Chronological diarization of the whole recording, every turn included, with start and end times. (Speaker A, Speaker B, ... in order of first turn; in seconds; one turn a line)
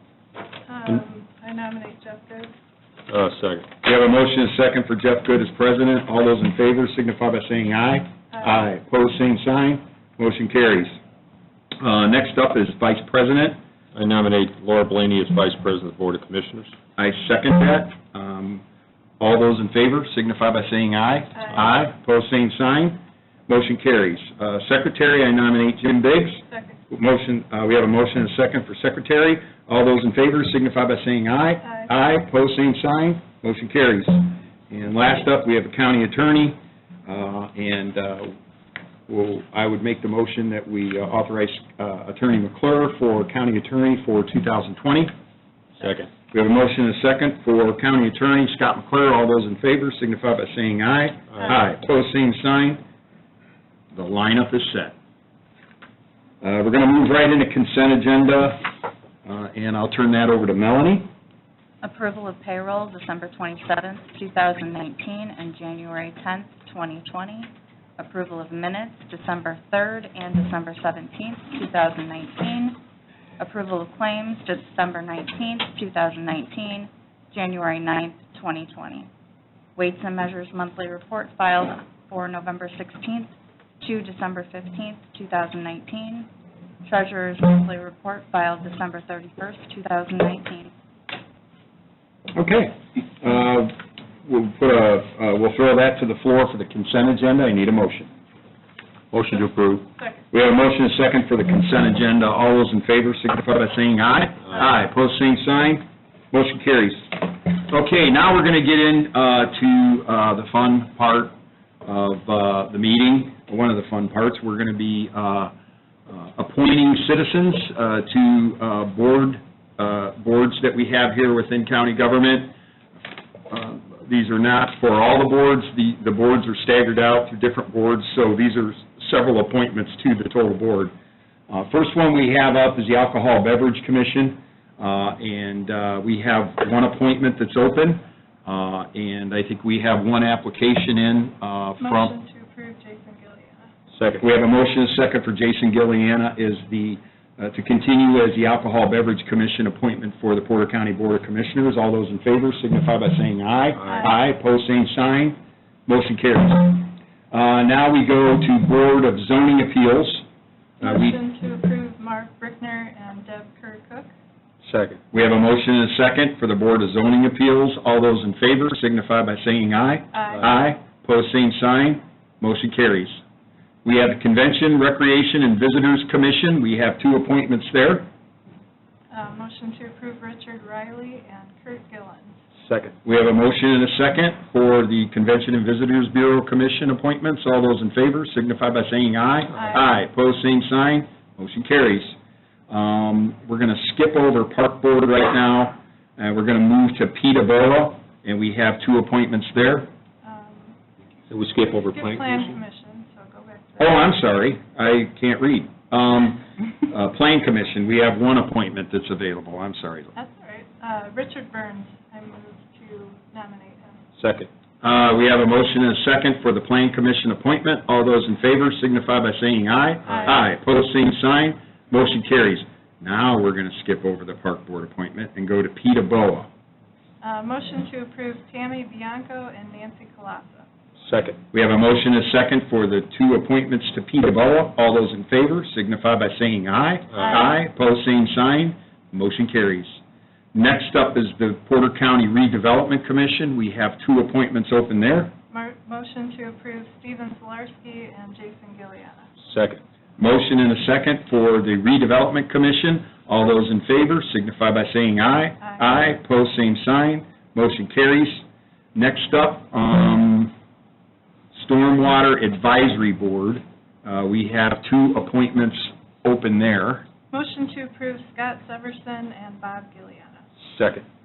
Speaker A: 0.7-2.5
Speaker B: 3.1-3.7
Speaker C: 3.8-11.0
Speaker C: 11.8-13.6
Speaker B: 13.9-16.7
Speaker C: 17.0-18.6
Speaker C: 19.2-38.3
Speaker A: 21.4-21.7
Speaker A: 26.4-26.8
Speaker C: 39.1-45.1
Speaker B: 45.8-46.1
Speaker C: 46.0-52.8
Speaker C: 53.9-54.9
Speaker C: 56.4-58.7
Speaker C: 59.2-61.1
Speaker D: 61.8-72.8
Speaker D: 73.4-79.1
Speaker D: 79.8-83.3
Speaker D: 83.8-86.3
Speaker D: 86.8-90.7
Speaker C: 92.3-98.1
Speaker B: 99.1-99.9
Speaker A: 100.0-100.2
Speaker C: 100.3-115.5
Speaker C: 116.1-122.5
Speaker C: 123.5-130.9
Speaker C: 131.5-142.2
Speaker A: 141.8-143.7
Speaker B: 143.9-144.2
Speaker C: 144.2-160.2
Speaker A: 160.8-164.1
Speaker C: 160.8-161.2
Speaker B: 164.6-165.0
Speaker C: 165.1-173.2
Speaker A: 170.1-170.5
Speaker C: 173.8-178.1
Speaker A: 179.1-182.4
Speaker B: 182.6-182.9
Speaker C: 183.1-192.2
Speaker A: 189.6-189.9
Speaker C: 192.7-199.9
Speaker A: 200.2-200.8
Speaker B: 201.3-202.6
Speaker A: 201.7-204.1
Speaker C: 203.8-210.1
Speaker A: 210.2-214.1
Speaker B: 214.2-214.5
Speaker C: 214.8-226.5
Speaker B: 220.1-220.3
Speaker A: 220.1-220.4
Speaker A: 227.2-230.7
Speaker B: 231.0-231.4
Speaker C: 231.5-240.0
Speaker C: 240.5-245.3
Speaker A: 245.5-249.3
Speaker B: 249.4-249.8
Speaker C: 250.2-260.5
Speaker C: 261.5-267.1
Speaker A: 267.3-270.4
Speaker B: 270.6-271.1